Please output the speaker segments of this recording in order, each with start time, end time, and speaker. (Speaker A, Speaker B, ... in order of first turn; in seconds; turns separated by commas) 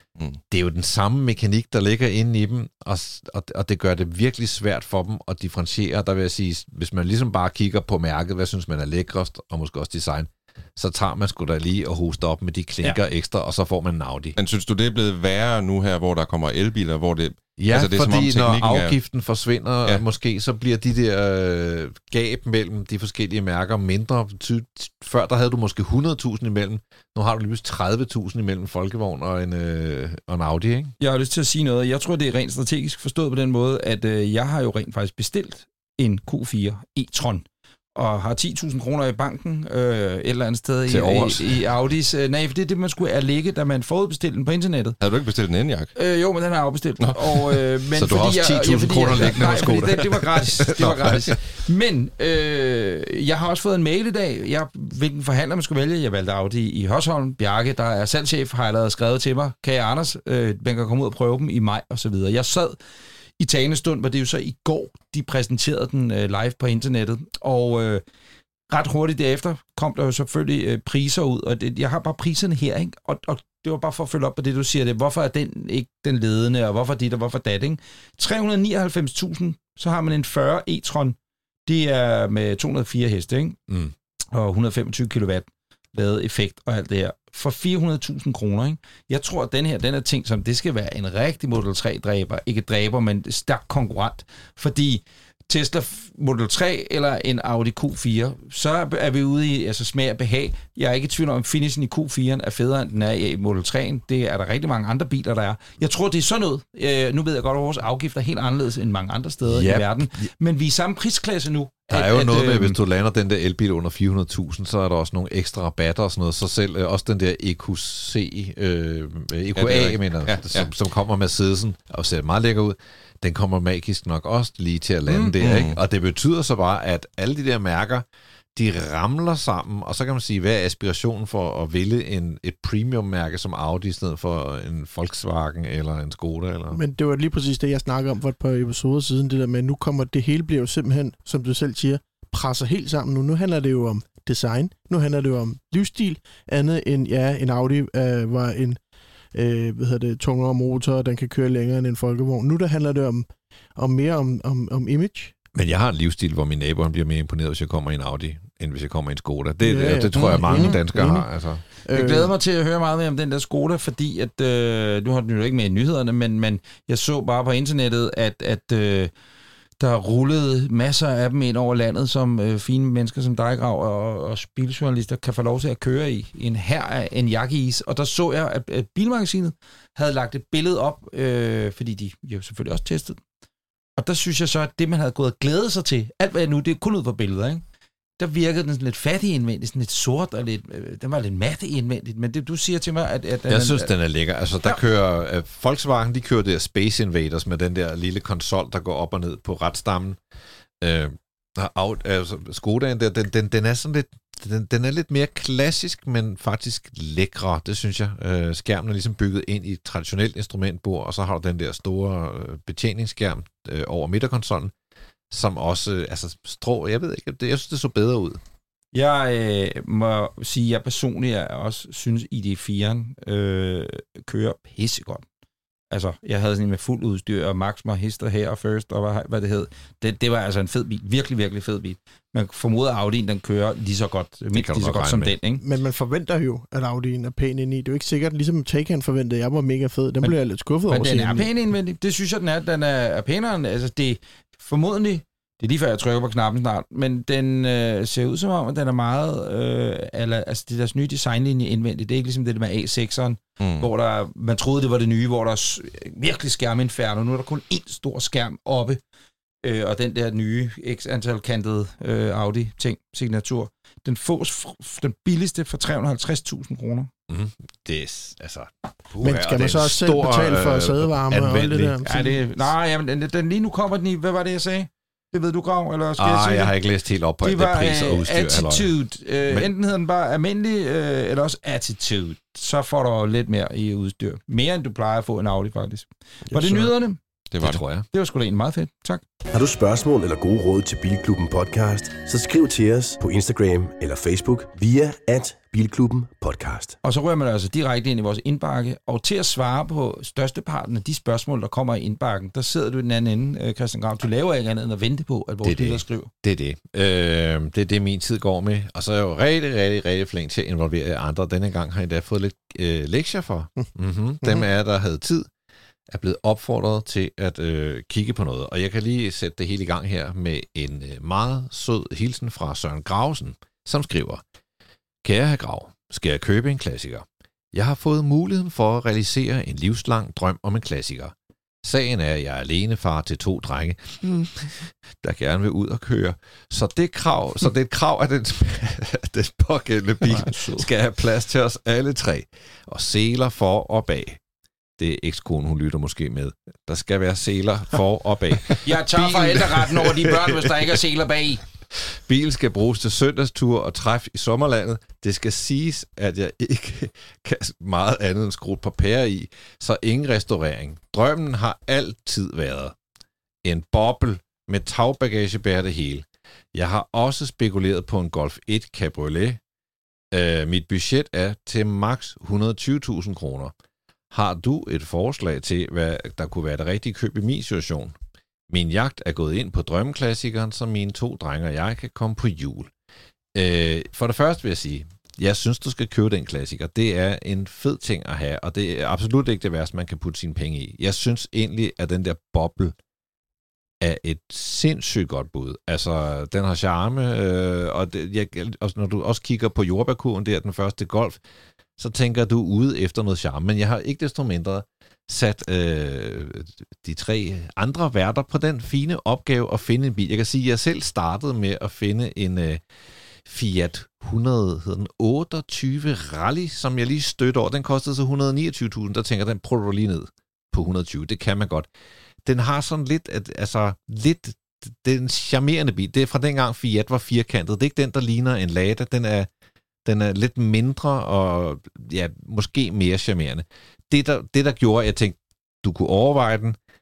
Speaker A: 0.5-14.4, Speaker B: 14.4-19.0, Speaker A: 17.6-30.9, Speaker C: 31.0-37.5, Speaker C: 38.0-45.0, Speaker A: 40.9-41.6, Speaker B: 45.0-45.9, Speaker C: 46.0-62.8, Speaker B: 47.0-47.6, Speaker A: 48.0-51.1, Speaker C: 63.4-68.0, Speaker C: 68.7-83.6, Speaker A: 83.7-83.9, Speaker C: 84.3-112.8, Speaker A: 109.5-110.3, Speaker A: 111.9-136.8, Speaker B: 119.6-120.7, Speaker C: 125.1-125.3, Speaker B: 125.4-125.8, Speaker D: 136.7-148.8, Speaker D: 149.3-155.3, Speaker A: 155.5-161.6, Speaker D: 159.6-161.3, Speaker C: 160.1-160.8, Speaker D: 161.8-162.3, Speaker C: 161.9-169.1, Speaker C: 169.8-183.2, Speaker C: 184.0-187.6, Speaker C: 188.2-193.9, Speaker A: 193.5-200.2, Speaker A: 200.8-214.7, Speaker A: 215.3-218.4, Speaker C: 218.9-225.2, Speaker C: 225.9-235.6, Speaker A: 234.5-235.4, Speaker D: 235.6-241.5, Speaker C: 240.9-259.0, Speaker B: 253.6-253.9, Speaker C: 259.6-267.1, Speaker A: 267.3-272.0, Speaker D: 269.2-272.5, Speaker C: 272.0-276.8, Speaker A: 276.2-278.9, Speaker C: 277.4-287.2, Speaker A: 279.5-279.7, Speaker D: 286.5-286.9, Speaker B: 287.5-287.8, Speaker A: 287.6-288.1, Speaker C: 288.1-289.2, Speaker E: 289.5-297.0, Speaker C: 297.0-306.3, Speaker A: 305.6-315.5, Speaker A: 316.1-324.4, Speaker A: 325.2-344.4, Speaker C: 340.3-340.9, Speaker A: 345.0-351.0, Speaker C: 348.8-351.6, Speaker A: 351.9-363.0, Speaker A: 363.6-369.6, Speaker A: 370.3-373.7, Speaker A: 374.3-378.2, Speaker A: 378.7-382.9, Speaker A: 383.6-392.9, Speaker A: 394.0-401.4, Speaker A: 402.0-412.8, Speaker A: 413.4-421.9, Speaker A: 422.4-429.5, Speaker A: 430.1-436.8